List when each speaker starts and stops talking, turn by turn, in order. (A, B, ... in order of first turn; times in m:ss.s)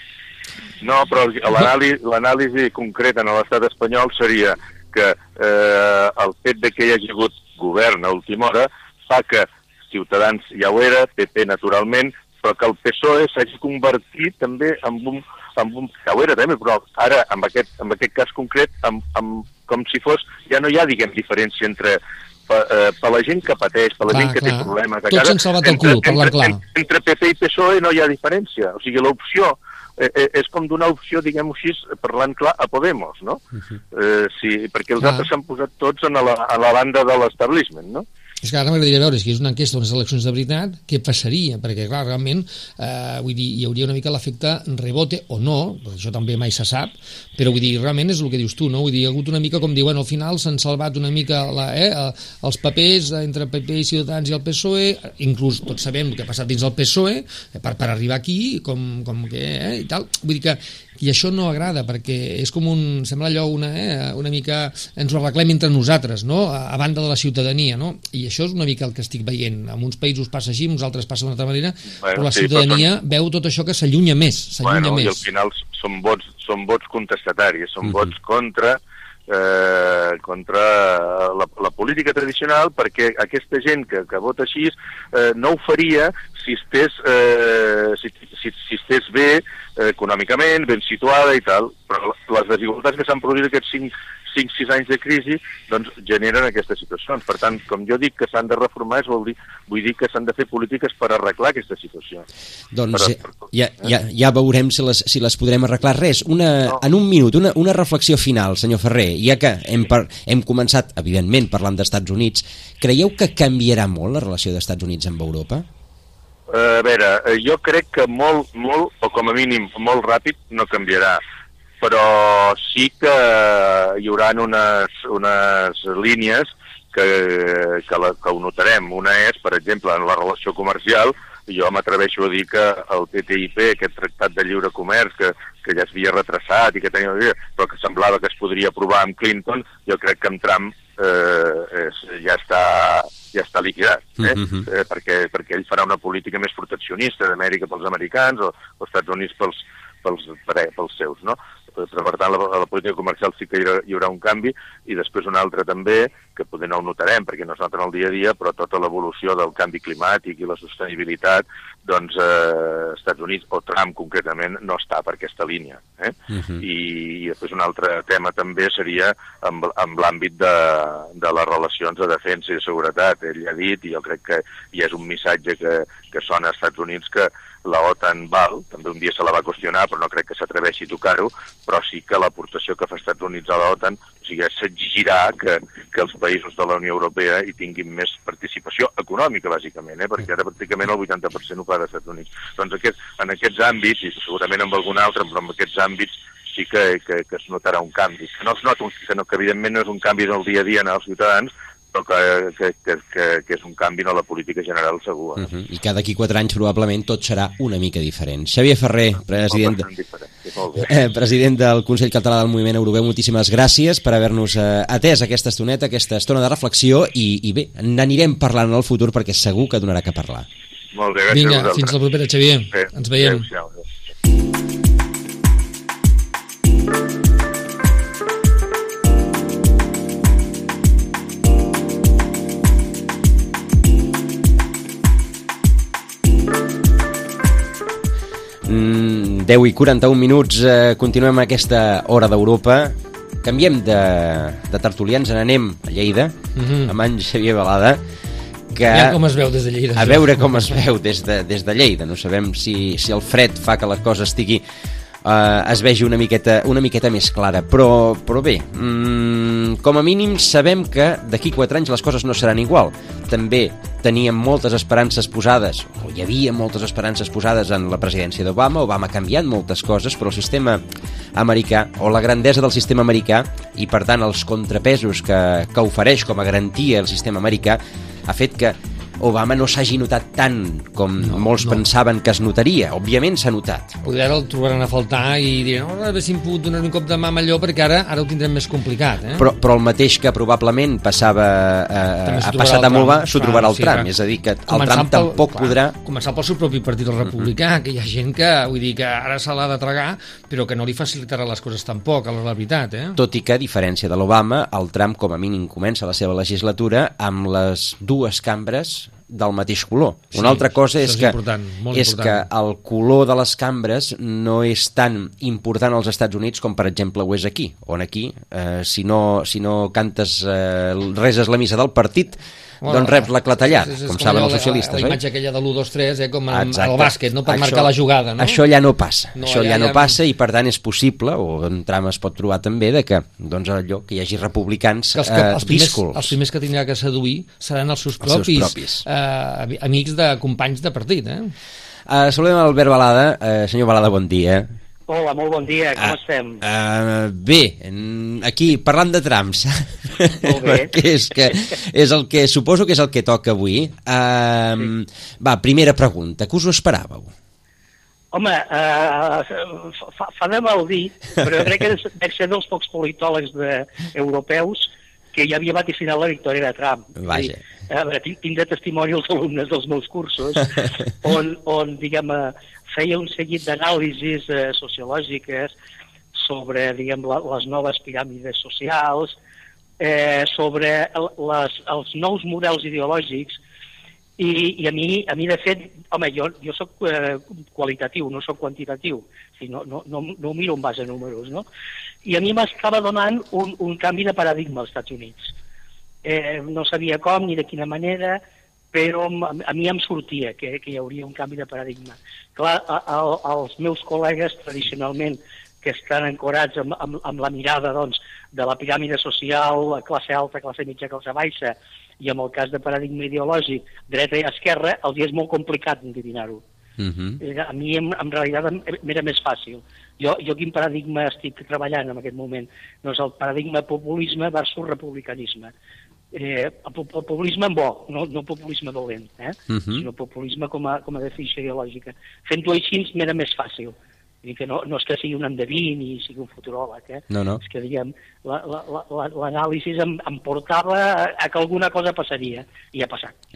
0:00.8-0:33.4 A
0:24.1-0:26.6 B
0:33.9-0:38.0 A
0:35.0-0:35.3 B
0:38.4-1:15.2 B
1:12.0-1:12.8 A
1:14.6-1:42.2 A
1:42.7-1:55.7 C
1:42.9-1:43.2 A
1:56.5-2:01.2 A
2:01.8-3:25.5 A
2:24.2-2:24.6 C
2:46.3-2:46.6 C
3:25.4-3:29.9 C
3:29.3-3:30.9 A
3:30.8-3:40.5 C
3:40.9-3:41.9 A
3:41.3-3:43.4 B
3:42.7-3:43.8 A
3:58.6-4:08.0 C
4:06.5-4:06.9 B
4:08.7-4:09.2 C
4:08.9-4:10.7 B
4:09.9-4:14.6 C
4:15.2-4:30.8 C
4:31.3-4:44.0 C
4:41.3-4:41.8 B
4:44.0-4:49.5 B
4:49.4-4:55.9 C
4:52.2-4:54.1 B
4:54.7-5:03.2 B
5:03.2-5:11.4 C
5:10.3-5:12.4 B
5:11.9-5:25.2 C
5:22.8-5:28.6 B
5:26.5-5:36.3 C
5:29.3-5:30.2 B
5:35.1-5:41.5 B
5:38.2-5:39.0 C
5:42.1-5:44.7 C
5:45.1-5:46.6 D
5:46.0-5:57.3 C
5:50.4-5:50.9 D
5:58.3-6:15.7 D
6:07.2-6:07.6 C
6:16.3-6:19.4 D
6:20.0-6:23.6 D
6:24.4-6:31.6 D
6:32.2-6:35.5 D
6:36.2-6:38.4 D
6:38.9-6:56.6 D
6:57.0-6:57.4 C
6:57.4-7:05.7 D
7:06.3-7:23.3 D
7:09.7-7:10.0 C
7:17.3-7:17.6 C